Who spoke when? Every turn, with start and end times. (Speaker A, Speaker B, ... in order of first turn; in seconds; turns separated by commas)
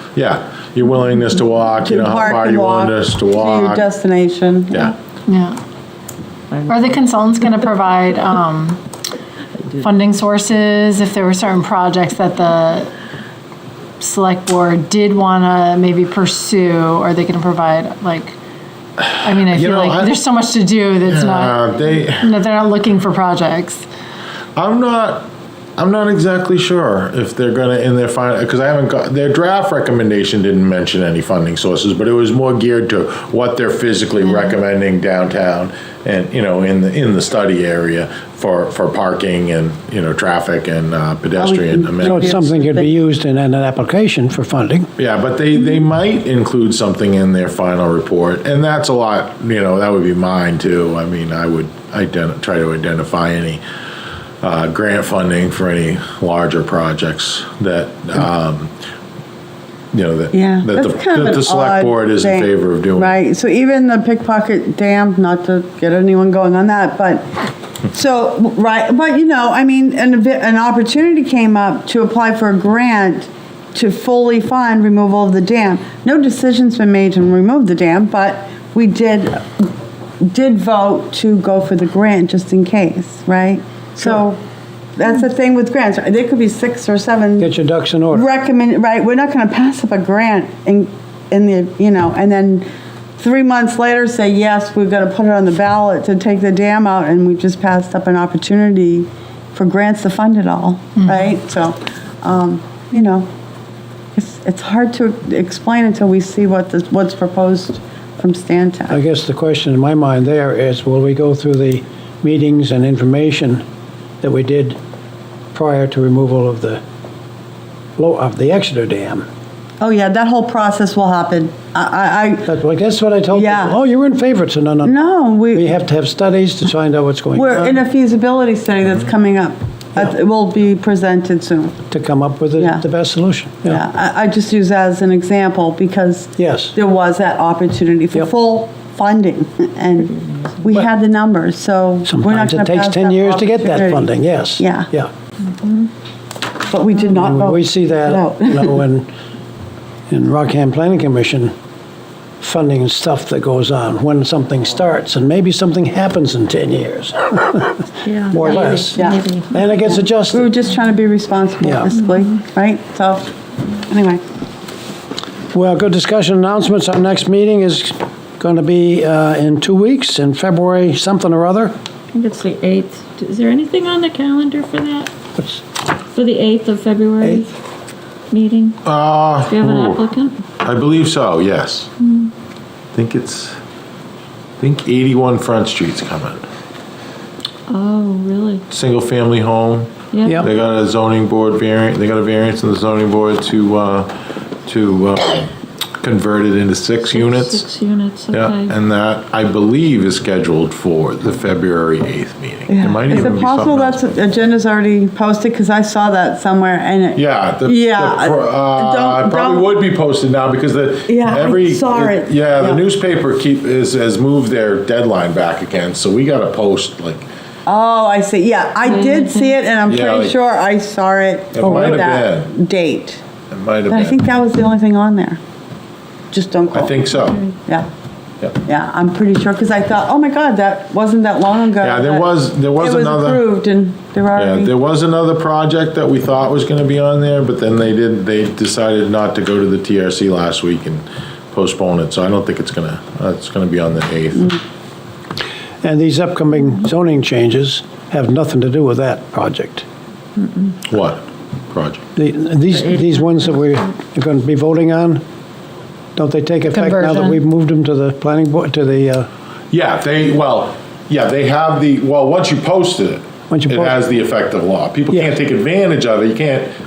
Speaker A: 0.1-3.9, Speaker B: 1.8-4.9, Speaker C: 5.3-5.6, Speaker D: 6.5-7.0, Speaker C: 6.7-8.8, Speaker C: 9.8-12.9, Speaker C: 14.0-18.4, Speaker A: 19.0-20.1, Speaker C: 19.2-23.9, Speaker A: 21.0-22.4, Speaker A: 24.6-42.4, Speaker B: 41.4-42.9, Speaker E: 42.0-44.9, Speaker A: 45.0-53.6, Speaker A: 54.4-58.7, Speaker A: 59.9-63.1, Speaker B: 60.3-67.3, Speaker B: 67.9-79.7, Speaker B: 80.2-84.4, Speaker B: 85.0-87.5, Speaker E: 87.4-88.2, Speaker B: 88.1-92.7, Speaker B: 93.2-103.3, Speaker B: 104.1-109.0, Speaker E: 108.9-113.6, Speaker E: 114.2-114.8, Speaker E: 115.5-116.8, Speaker E: 118.0-119.2, Speaker B: 119.8-122.5, Speaker E: 122.5-124.9, Speaker B: 123.3-123.8, Speaker B: 124.8-125.7, Speaker E: 125.5-127.8, Speaker B: 127.3-131.7, Speaker E: 131.9-133.8, Speaker B: 132.6-132.8, Speaker B: 133.6-144.9, Speaker E: 136.4-136.7, Speaker E: 142.1-145.1, Speaker B: 146.6-148.8, Speaker E: 147.0-149.1, Speaker E: 150.1-151.5, Speaker E: 152.4-160.5, Speaker D: 158.0-159.8, Speaker B: 158.8-159.2, Speaker B: 159.8-163.3, Speaker E: 161.6-161.9, Speaker B: 163.8-164.2, Speaker E: 165.5-171.8, Speaker D: 172.1-175.1, Speaker D: 176.1-177.5, Speaker D: 178.3-178.8, Speaker A: 178.8-180.0, Speaker D: 179.4-180.4, Speaker A: 180.6-181.9, Speaker D: 182.0-182.3, Speaker A: 182.9-183.6, Speaker A: 184.6-186.4, Speaker D: 187.7-188.6, Speaker A: 188.7-194.1, Speaker D: 190.1-190.4, Speaker A: 194.7-195.5, Speaker A: 196.0-197.6, Speaker D: 197.1-198.7, Speaker A: 198.3-204.1, Speaker B: 202.7-209.7, Speaker A: 207.1-217.2, Speaker B: 211.1-212.8, Speaker B: 217.7-223.2, Speaker D: 218.8-219.5, Speaker A: 219.8-220.4, Speaker A: 221.5-222.5, Speaker A: 223.5-224.2, Speaker B: 223.9-225.4, Speaker B: 226.3-227.9, Speaker A: 226.7-227.5, Speaker B: 228.6-234.7, Speaker A: 231.8-233.4, Speaker A: 234.3-244.6, Speaker E: 245.8-249.8, Speaker D: 250.4-250.7, Speaker A: 250.9-252.0, Speaker E: 252.2-255.2, Speaker E: 256.1-259.3, Speaker C: 256.7-257.4, Speaker A: 259.7-266.7, Speaker E: 263.5-264.0